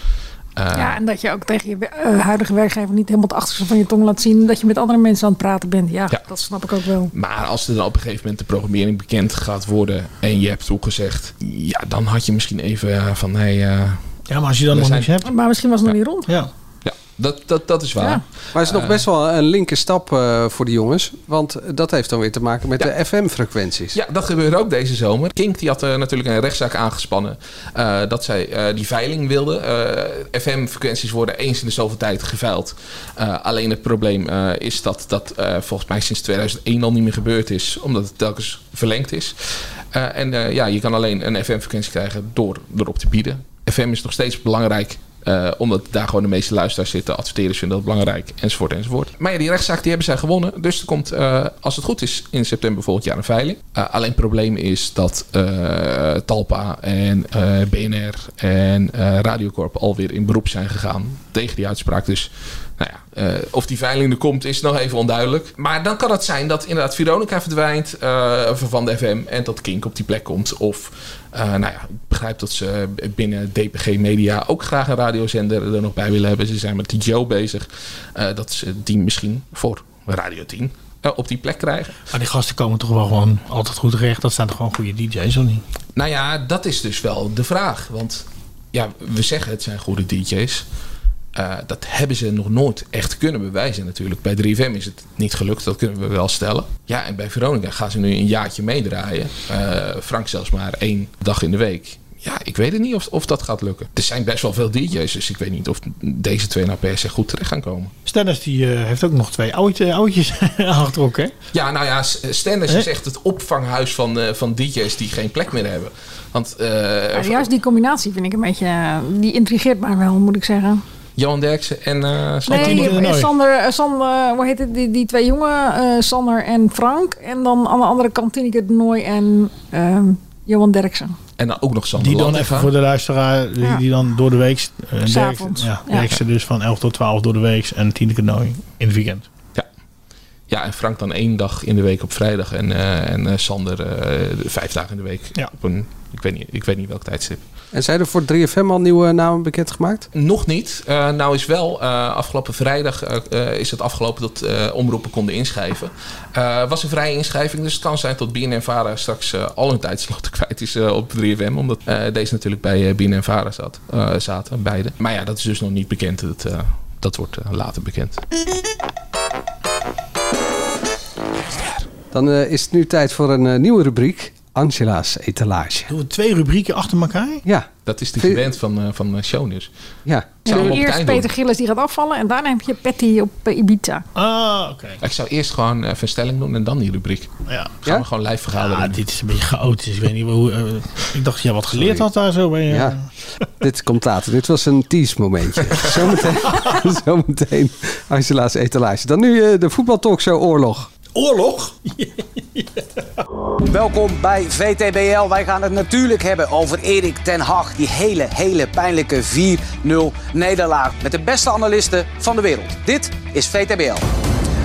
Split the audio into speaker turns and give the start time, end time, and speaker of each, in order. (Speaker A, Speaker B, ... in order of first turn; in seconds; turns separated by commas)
Speaker A: 0.6-1.0, Speaker B: 0.7-7.1, Speaker A: 7.1-14.0, Speaker C: 14.3-15.3, Speaker A: 14.7-15.1, Speaker B: 15.2-16.3, Speaker A: 16.8-19.0, Speaker D: 18.5-24.0, Speaker A: 23.9-39.4, Speaker A: 39.9-82.0, Speaker C: 82.1-85.6, Speaker A: 86.0-90.6, Speaker A: 91.3-107.9, Speaker C: 108.0-111.3, Speaker A: 111.5-117.5, Speaker B: 117.1-120.8, Speaker A: 121.2-123.0, Speaker C: 122.5-123.3, Speaker B: 122.5-131.2, Speaker A: 131.4-132.7, Speaker C: 132.0-139.2, Speaker B: 135.0-136.1, Speaker A: 140.5-147.4, Speaker D: 147.7-150.1, Speaker A: 150.1-168.2, Speaker A: 171.5-171.8, Speaker D: 172.1-175.9, Speaker C: 175.9-177.4, Speaker D: 177.4-178.4, Speaker A: 177.8-179.7, Speaker D: 180.1-180.8, Speaker A: 180.4-181.3, Speaker B: 180.4-184.0, Speaker C: 184.2-185.0, Speaker A: 185.0-187.3, Speaker C: 187.5-187.8, Speaker A: 187.8-189.0, Speaker C: 188.6-193.0, Speaker D: 192.7-192.9, Speaker D: 193.6-200.9, Speaker C: 201.1-202.8, Speaker E: 203.7-214.0